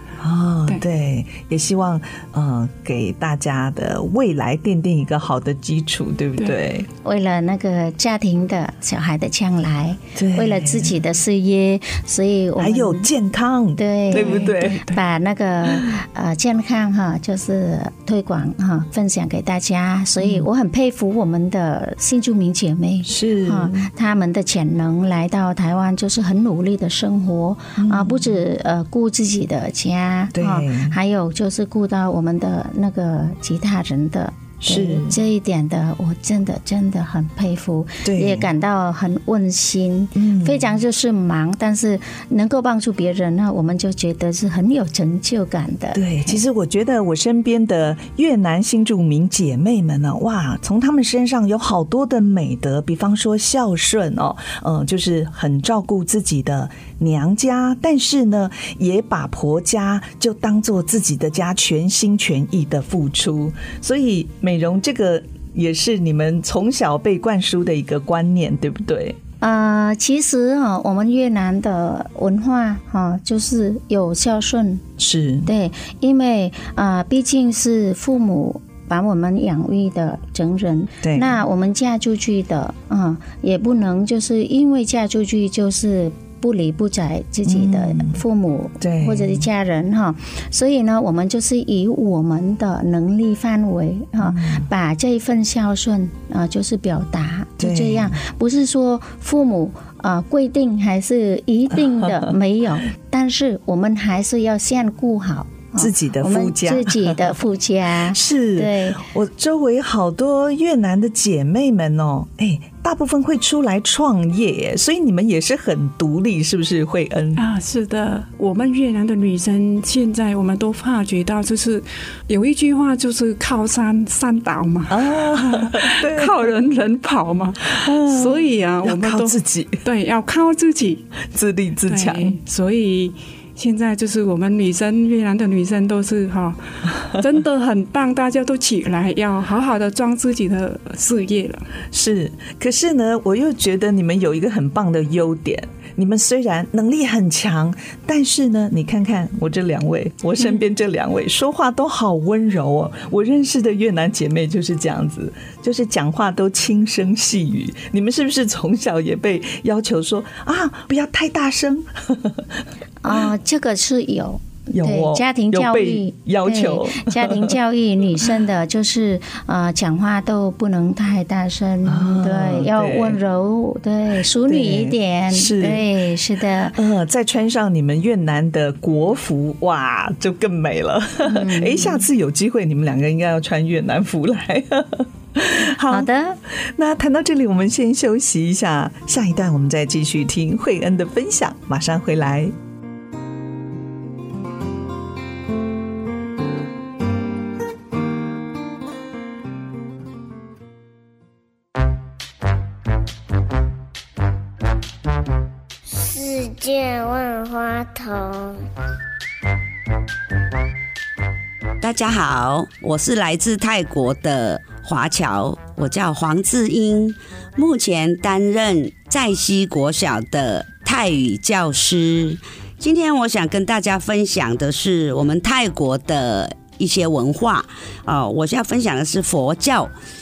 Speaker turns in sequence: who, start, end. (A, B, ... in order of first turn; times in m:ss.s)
0:00.2-0:06.9 A
0:07.0-0:13.1 B
0:10.1-0:11.0 A
0:12.6-0:14.8 A
0:13.8-0:46.3 B
0:14.1-0:15.0 C
0:15.7-0:16.0 A
0:20.2-0:20.4 A
0:23.0-0:23.9 A
0:27.8-0:28.4 A
0:30.3-0:30.9 A
0:34.6-0:35.2 A
0:38.0-0:38.5 A
0:40.1-0:40.6 A
0:45.9-1:09.2 A
1:09.4-1:14.8 B
1:15.0-1:15.5 A
1:15.4-1:49.0 B
1:21.0-1:21.4 A
1:27.4-1:28.2 A
1:28.8-1:29.4 A
1:34.2-1:34.6 A
1:37.6-1:38.2 A
1:41.7-1:42.3 A
1:45.8-1:47.3 A
1:48.1-1:57.4 A
1:57.4-2:11.0 C
2:04.9-2:06.3 A
2:07.6-2:09.8 A
2:11.3-2:12.4 A
2:11.8-2:21.7 C
2:21.9-2:42.5 A
2:43.0-2:56.8 B
2:44.7-2:47.6 A
2:51.8-2:53.2 A
2:54.4-2:55.9 A
2:56.7-3:12.5 A
3:01.2-3:02.0 B
3:05.9-3:06.4 B
3:25.9-3:28.6 D
3:31.8-3:49.9 E